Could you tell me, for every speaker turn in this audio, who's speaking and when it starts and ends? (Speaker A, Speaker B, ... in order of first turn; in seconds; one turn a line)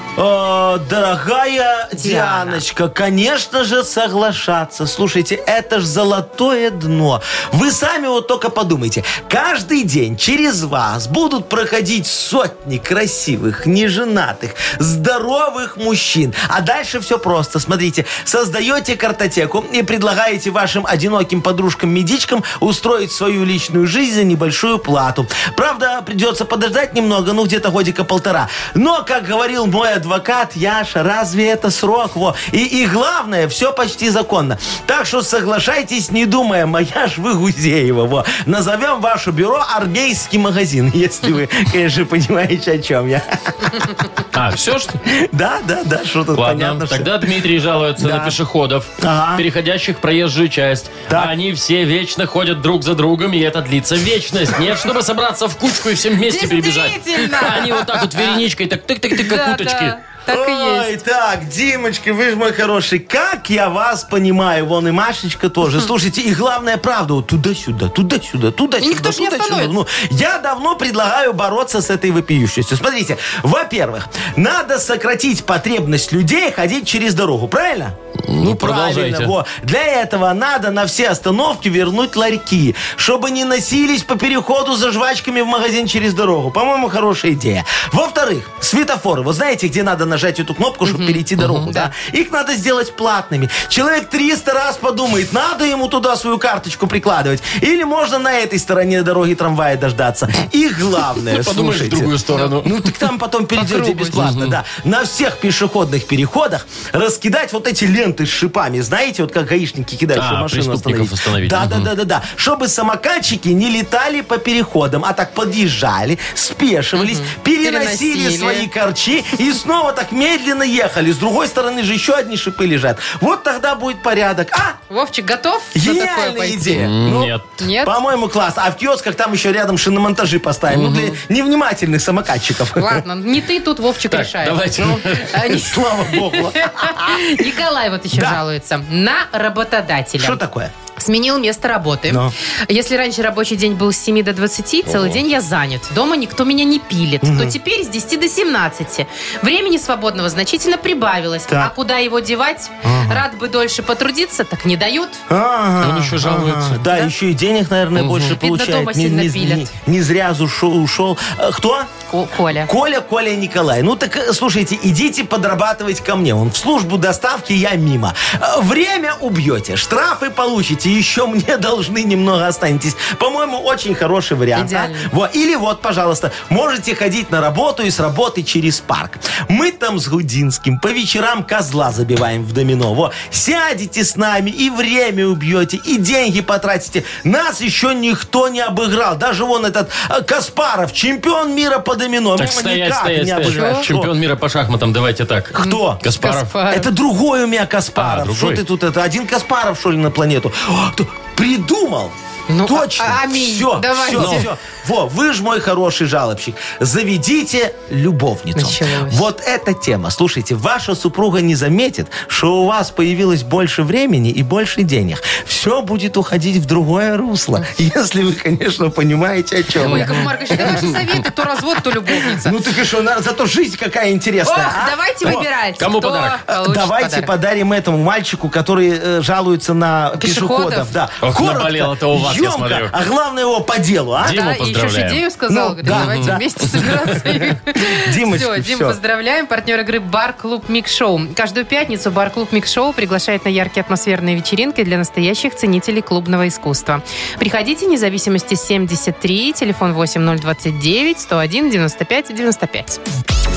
Speaker A: 0.2-44.1
Speaker B: 2.0-2.6
Speaker C: 44.3-45.0
Speaker A: 45.1-47.3
Speaker C: 46.3-60.0
Speaker A: 48.0-48.4
Speaker A: 49.0-49.4
Speaker B: 56.3-57.9
Speaker B: 59.2-60.9
Speaker A: 60.3-124.8
Speaker B: 68.8-69.7
Speaker C: 78.3-79.3
Speaker B: 90.8-91.9
Speaker C: 91.4-91.7
Speaker C: 101.3-102.9
Speaker B: 103.6-104.2
Speaker C: 104.1-104.6
Speaker C: 110.2-111.9
Speaker B: 117.0-118.7
Speaker B: 124.9-126.8
Speaker A: 125.7-133.0
Speaker C: 126.7-127.5
Speaker B: 127.6-128.0
Speaker C: 130.7-131.2
Speaker B: 132.8-140.4
Speaker C: 134.1-135.3
Speaker A: 134.8-137.4
Speaker A: 138.1-138.4
Speaker A: 140.2-140.7
Speaker B: 141.0-155.2
Speaker A: 142.1-142.3
Speaker C: 144.9-145.2
Speaker A: 147.2-147.6
Speaker A: 152.8-153.2
Speaker A: 155.3-161.9
Speaker C: 155.8-156.8
Speaker C: 157.9-158.3
Speaker B: 158.3-159.7
Speaker B: 162.1-162.7
Speaker A: 162.7-194.1
Speaker B: 174.6-175.1
Speaker C: 192.4-196.5
Speaker B: 193.5-193.9
Speaker A: 195.5-196.0
Speaker B: 195.6-196.9
Speaker A: 196.7-202.2
Speaker C: 198.0-198.6
Speaker B: 202.5-204.5
Speaker A: 202.7-221.0
Speaker C: 204.2-204.5
Speaker B: 208.6-209.3
Speaker C: 219.8-220.8
Speaker B: 219.8-222.6
Speaker A: 222.1-225.4
Speaker B: 224.4-227.3
Speaker C: 225.3-226.4
Speaker A: 226.5-234.4
Speaker B: 230.2-230.9
Speaker C: 231.2-232.9
Speaker C: 234.2-235.2
Speaker B: 234.2-253.0
Speaker A: 235.5-239.0
Speaker C: 235.9-236.4